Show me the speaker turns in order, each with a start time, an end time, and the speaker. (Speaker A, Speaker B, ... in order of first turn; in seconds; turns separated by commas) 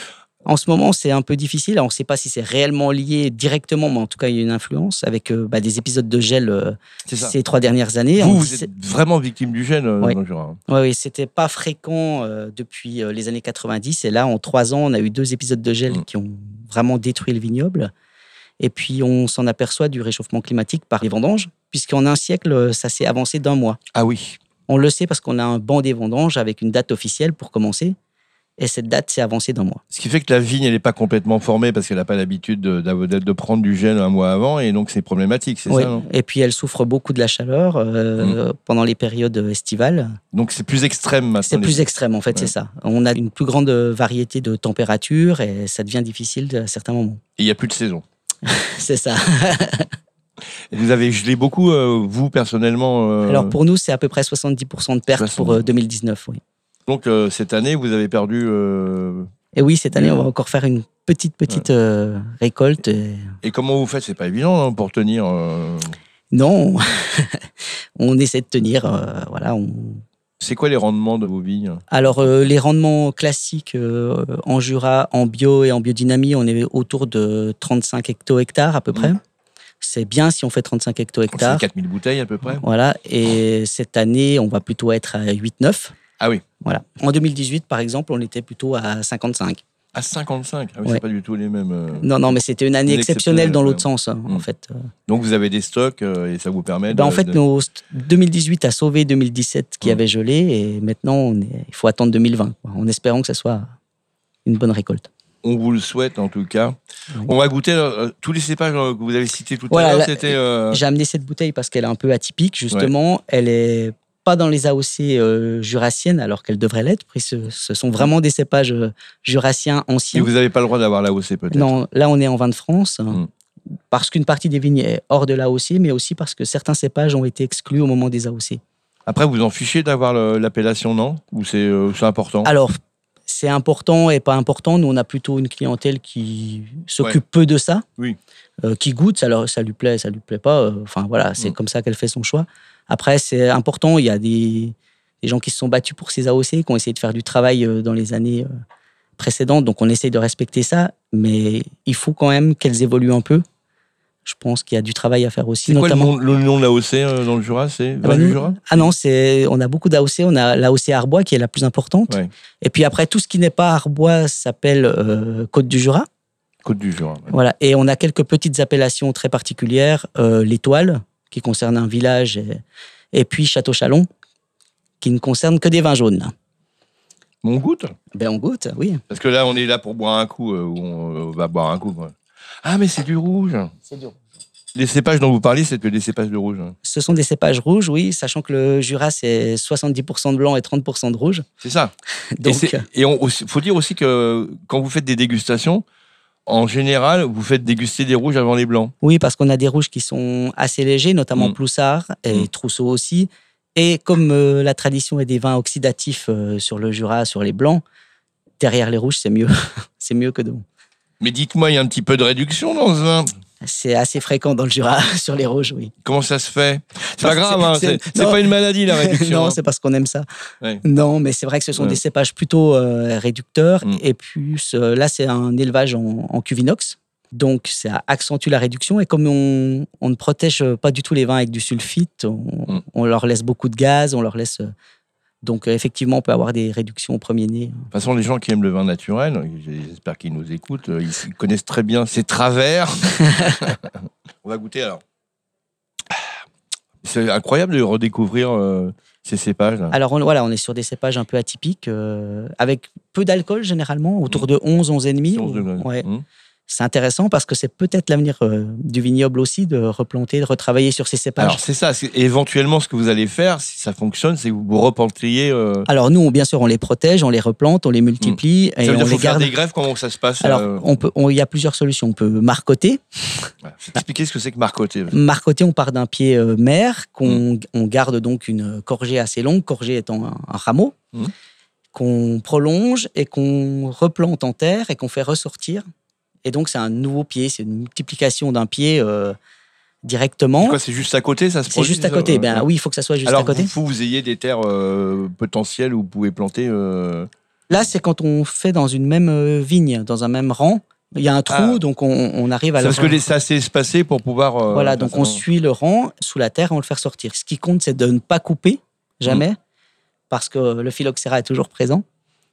Speaker A: 0.5-8.7, Speaker B: 7.1-7.4, Speaker B: 8.2-10.6, Speaker A: 10.0-17.9, Speaker A: 18.6-23.8, Speaker B: 23.9-24.4, Speaker A: 24.7-27.9, Speaker A: 28.6-29.8, Speaker B: 29.9-36.0, Speaker A: 35.7-40.2, Speaker B: 40.3-42.5, Speaker A: 41.5-47.2, Speaker B: 47.4-48.0, Speaker A: 48.4-49.9, Speaker B: 50.7-53.5, Speaker A: 53.3-56.4, Speaker B: 55.1-55.7, Speaker B: 56.9-59.3, Speaker A: 59.5-63.3, Speaker B: 60.0-60.3, Speaker B: 63.4-66.0, Speaker A: 66.3-67.5, Speaker A: 68.0-70.0, Speaker B: 70.4-71.8, Speaker A: 71.9-79.2, Speaker A: 79.8-81.6, Speaker B: 81.3-82.6, Speaker A: 82.5-85.9, Speaker A: 86.6-89.6, Speaker B: 89.9-92.2, Speaker A: 92.0-94.9, Speaker B: 92.9-94.4, Speaker B: 95.1-97.4, Speaker A: 96.9-103.7, Speaker A: 104.4-105.1, Speaker B: 105.4-110.8, Speaker A: 109.7-120.3, Speaker B: 120.1-121.7, Speaker A: 121.5-123.2, Speaker A: 123.9-128.6, Speaker B: 129.1-132.5, Speaker A: 132.4-137.8, Speaker A: 138.6-148.5, Speaker A: 149.2-153.4, Speaker A: 154.2-156.1, Speaker B: 155.6-158.9, Speaker A: 158.0-166.1, Speaker B: 166.6-167.3, Speaker A: 167.3-174.1, Speaker A: 175.0-176.3, Speaker B: 177.4-177.9, Speaker A: 178.1-179.0, Speaker B: 179.1-183.7, Speaker A: 183.9-184.2, Speaker B: 184.7-186.7, Speaker A: 186.8-191.4, Speaker B: 191.6-191.9, Speaker A: 192.3-192.8, Speaker B: 192.4-195.8, Speaker B: 196.5-198.9, Speaker A: 199.0-207.8, Speaker A: 208.6-210.6, Speaker B: 211.2-213.3, Speaker A: 213.6-215.9, Speaker B: 216.0-219.6, Speaker A: 217.2-220.2, Speaker A: 220.8-234.7, Speaker A: 235.4-237.8, Speaker B: 237.9-243.9, Speaker B: 244.4-245.0, Speaker B: 247.0-249.9, Speaker A: 249.9-256.1, Speaker B: 255.3-256.2, Speaker A: 256.7-261.6, Speaker B: 261.4-265.9, Speaker A: 265.9-269.6, Speaker B: 268.2-270.9, Speaker A: 270.4-273.5, Speaker B: 273.7-275.1, Speaker A: 275.1-280.9, Speaker A: 281.9-285.8, Speaker A: 286.4-289.4, Speaker A: 290.0-290.8, Speaker B: 290.6-292.7, Speaker A: 291.7-293.7, Speaker B: 293.2-297.3, Speaker A: 297.7-303.2, Speaker B: 301.5-301.8, Speaker B: 302.8-305.4, Speaker A: 304.7-309.6, Speaker A: 310.3-312.0